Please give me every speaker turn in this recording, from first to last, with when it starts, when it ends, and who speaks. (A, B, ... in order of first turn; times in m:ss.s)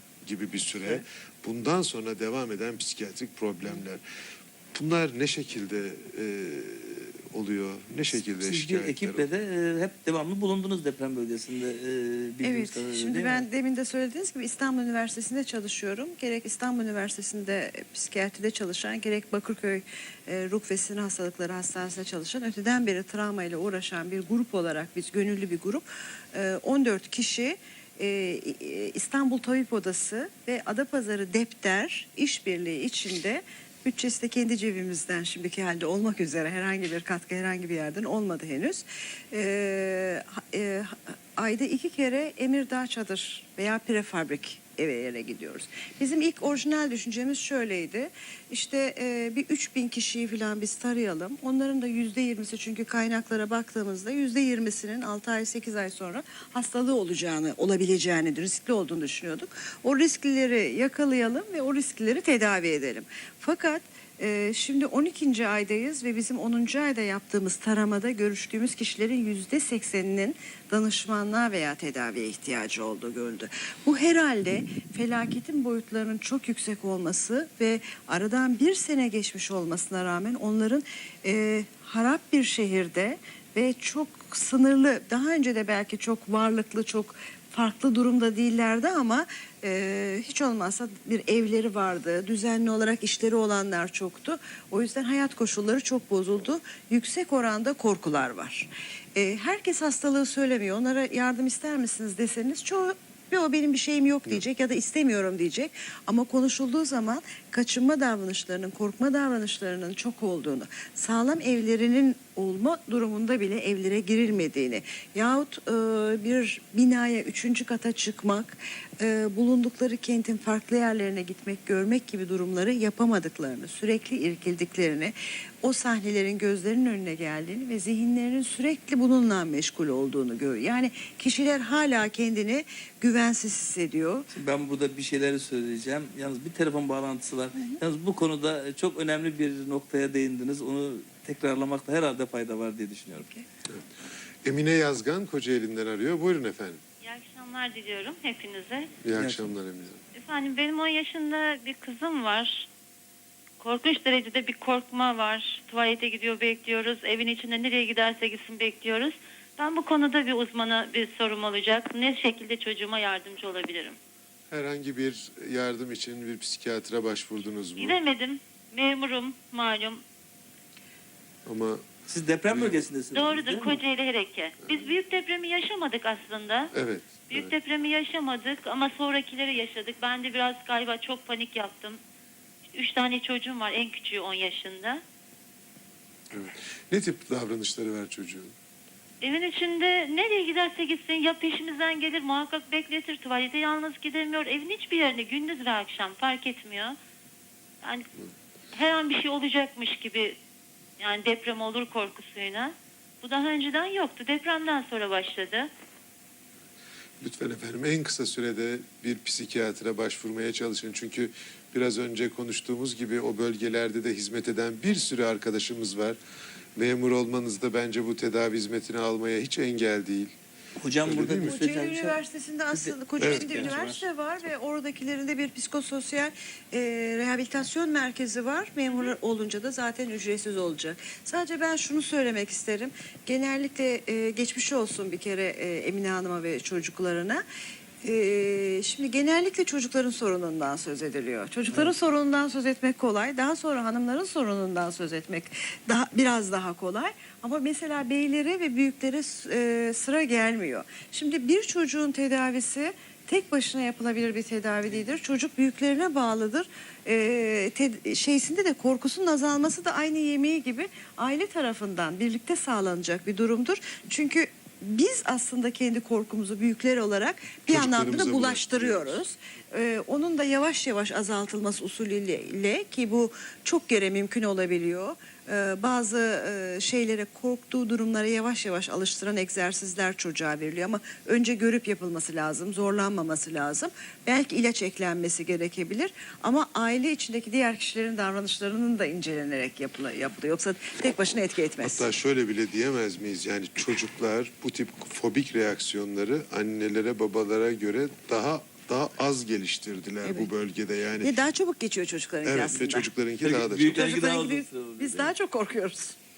0:00.2-0:04.0 A
0:04.7-0:09.3 A
0:08.1-0:13.5 B
0:12.4-2:14.2 C
2:14.3-2:23.3 B
2:24.4-2:26.8 A
2:27.0-2:28.9 D
2:29.0-2:30.0 A
2:30.2-2:32.7 D
2:33.6-2:44.0 D
2:44.5-2:48.0 A
2:47.8-2:50.0 D
2:51.4-2:51.8 A
2:52.1-2:53.8 B
2:52.5-2:52.8 A
2:53.2-2:56.7 D
2:56.7-2:57.6 A
2:57.3-3:02.0 D
3:02.7-3:05.0 D
3:06.3-3:08.5 A
3:09.2-3:17.0 D
3:18.7-3:20.4 D
3:21.0-3:25.7 D
3:27.2-3:36.2 A
3:36.8-3:40.3 A
3:40.8-3:42.2 B
3:41.0-3:41.6 A
3:41.4-3:57.4 C
3:42.7-3:44.0 B
3:43.2-3:44.0 A
3:58.0-4:52.1 C
4:27.7-4:29.2 A
4:51.8-5:01.4 A
5:00.2-5:00.5 C
5:01.2-5:03.1 C
5:02.4-5:04.2 A
5:03.4-5:05.3 B
5:03.9-5:06.2 C